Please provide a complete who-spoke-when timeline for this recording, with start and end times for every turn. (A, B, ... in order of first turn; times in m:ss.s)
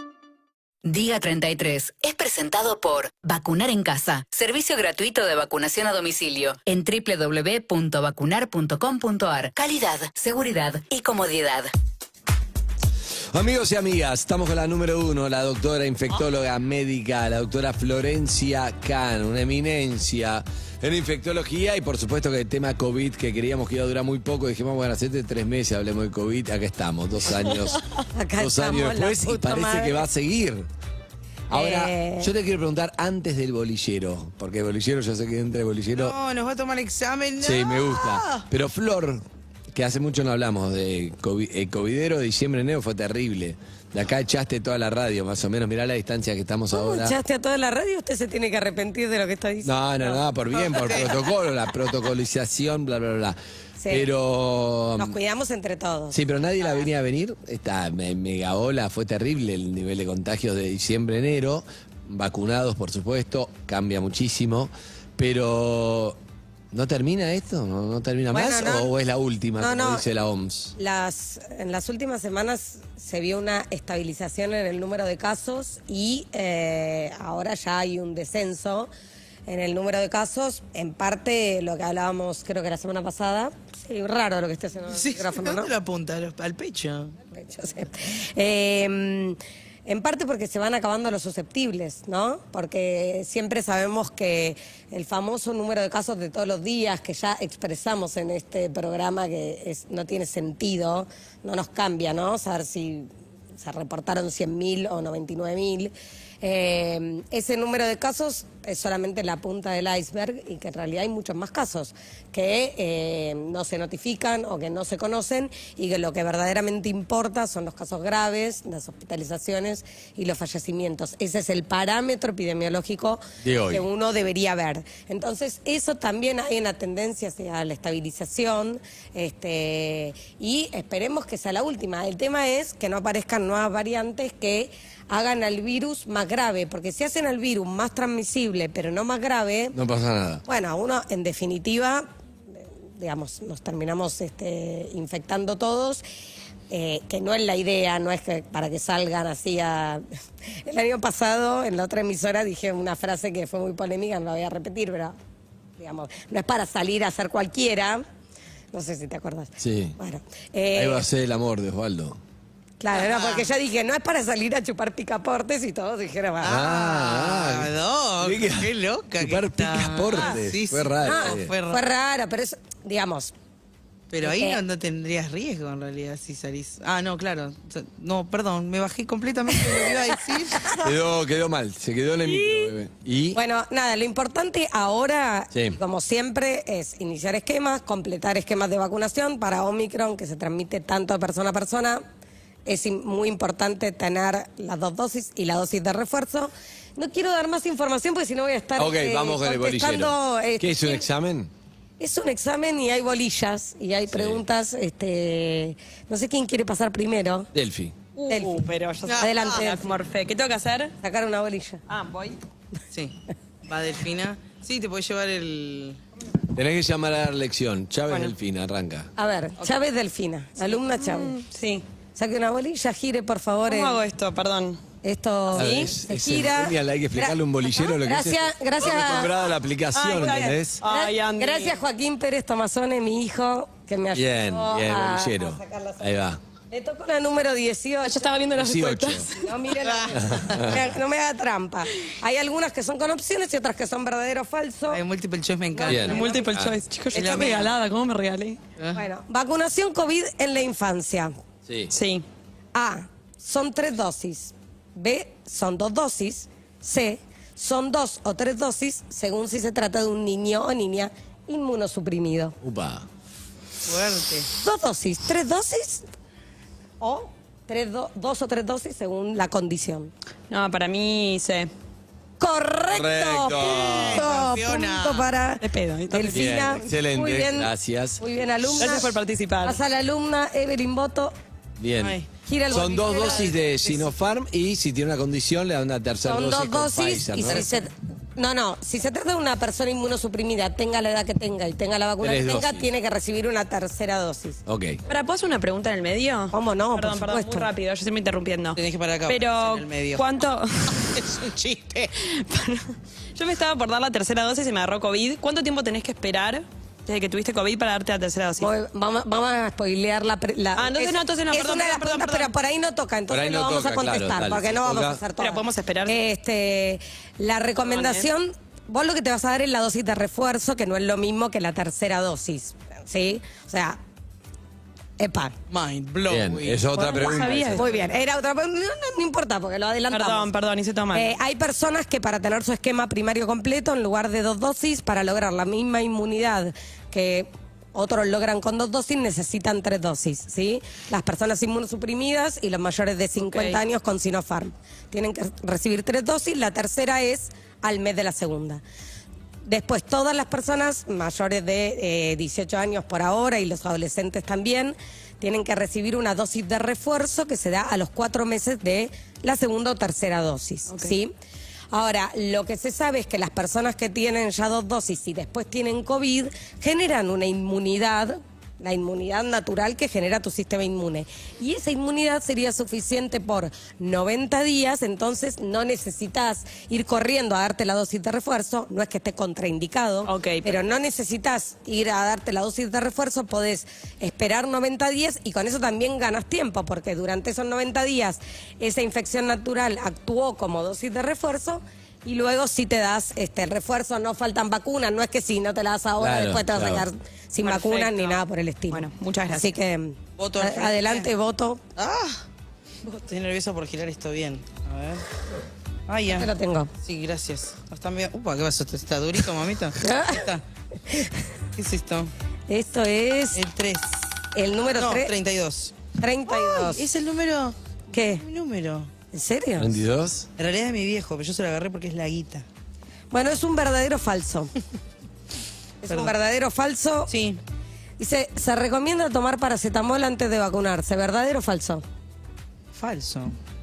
0:00.8-0:11.7 A
0:13.3-0:27.8 B
0:28.1-0:30.0 C
0:28.4-0:30.7 B
0:31.5-0:36.2 B
0:31.5-0:32.3 C
0:36.0-0:38.4 D
0:37.4-0:47.2 B
0:46.7-0:50.2 C
0:49.6-0:53.4 B
0:50.5-0:51.2 D
0:53.8-0:54.1 C
0:53.9-0:55.2 B
0:55.0-0:56.2 C
0:56.1-1:06.2 B
1:06.7-1:10.8 B
1:08.3-1:08.9 C
1:09.6-1:10.0 C
1:10.8-1:18.9 C
1:19.5-1:25.7 C
1:24.9-1:27.2 D
1:27.3-2:19.8 C
2:03.4-2:03.9 B
2:19.7-2:20.4 B
2:20.5-2:22.0 C
2:23.0-2:26.0 C
2:26.7-2:30.0 C
2:30.6-2:35.2 C
2:35.8-2:38.0 C
2:38.7-2:41.0 C
2:39.6-2:40.0 B
2:40.7-2:42.2 B
2:42.8-2:46.6 C
2:42.9-2:43.5 D
2:46.4-2:51.8 D
2:46.4-2:51.5 B
2:51.0-2:53.3 C
2:54.1-3:00.8 D
2:54.2-2:54.6 C
3:00.8-3:03.4 B
3:03.3-3:12.0 C
3:05.5-3:05.8 B
3:12.7-3:21.0 C
3:18.8-3:21.5 B
3:22.0-3:27.5 C
3:24.1-3:24.4 B
3:27.5-3:28.0 B
3:28.2-3:30.9 E
3:28.3-3:28.7 C
3:29.1-3:29.7 D
3:29.2-3:29.9 C
3:31.0-3:31.8 C
3:31.9-3:32.4 E
3:32.9-3:36.0 D
3:36.5-3:39.1 B
3:39.2-3:41.4 C
3:41.0-3:41.8 E
3:42.2-3:44.0 C
3:43.7-3:44.8 E
3:45.0-3:49.3 C
3:45.5-3:50.8 B
3:50.0-3:51.8 E
3:50.1-3:56.1 C
3:54.1-3:56.4 B
3:56.7-3:58.2 C
3:58.0-3:59.5 E
3:58.6-3:59.3 B
3:59.3-4:05.0 C
3:59.8-4:00.7 D
4:00.2-4:00.9 B
4:04.9-4:06.3 D
4:05.7-4:06.5 C
4:05.9-4:06.8 B
4:06.0-4:08.6 E
4:07.1-4:07.7 D
4:07.2-4:07.5 C
4:09.0-4:11.3 C
4:11.7-4:11.9 B
4:11.9-4:12.2 E
4:12.8-4:22.6 C
4:22.6-4:23.1 B
4:23.9-4:24.5 D
4:24.5-4:26.1 C
4:27.0-4:30.1 C
4:30.5-4:31.7 E
4:32.4-4:41.3 C
4:32.9-4:34.3 B
4:33.6-4:35.3 D
4:35.6-4:36.4 E
4:36.3-4:39.0 B
4:38.8-4:39.8 E
4:41.8-4:47.7 B
4:42.0-4:44.1 D
4:42.4-4:43.5 C
4:46.2-4:54.6 C
4:52.2-4:52.9 B
4:54.7-4:55.0 B
4:55.1-5:01.1 E
4:56.5-4:57.7 C
4:58.8-5:00.2 D
5:00.9-5:02.1 D
5:02.2-5:08.7 E
5:08.6-5:24.0 C
5:10.8-5:12.5 E
5:13.3-5:15.2 B
5:15.4-5:16.2 E
5:17.9-5:18.3 E
5:25.2-5:25.5 C
5:25.7-5:27.4 D
5:26.3-5:28.2 B
5:27.0-5:27.8 E
5:27.7-5:30.5 C
5:30.1-5:31.4 E
5:31.1-5:48.8 C
5:43.4-5:43.8 E
5:49.6-6:01.3 C
6:01.9-6:41.8 C
6:20.3-6:20.7 E
6:36.2-6:37.1 B
6:37.6-6:38.4 E
6:38.9-6:39.8 E
6:40.4-6:41.3 D
6:42.0-6:42.4 D
6:43.1-6:45.2 D
6:46.1-6:46.5 D
6:46.4-6:46.9 C
6:47.0-6:50.6 D
6:50.0-6:50.4 C
6:51.1-6:51.4 C
6:51.8-6:52.3 D
6:52.7-6:53.6 C
6:53.5-6:54.2 D
6:54.6-6:55.3 C
6:55.0-6:56.0 D
6:56.2-6:57.0 C
6:56.5-6:59.1 D
6:58.1-6:58.4 C
6:59.3-6:59.9 C
6:59.8-7:00.5 B
7:00.6-7:02.7 D
7:03.3-7:04.7 C
7:06.0-7:07.3 C
7:07.3-7:07.6 D
7:08.2-7:12.0 C
7:12.9-7:13.6 D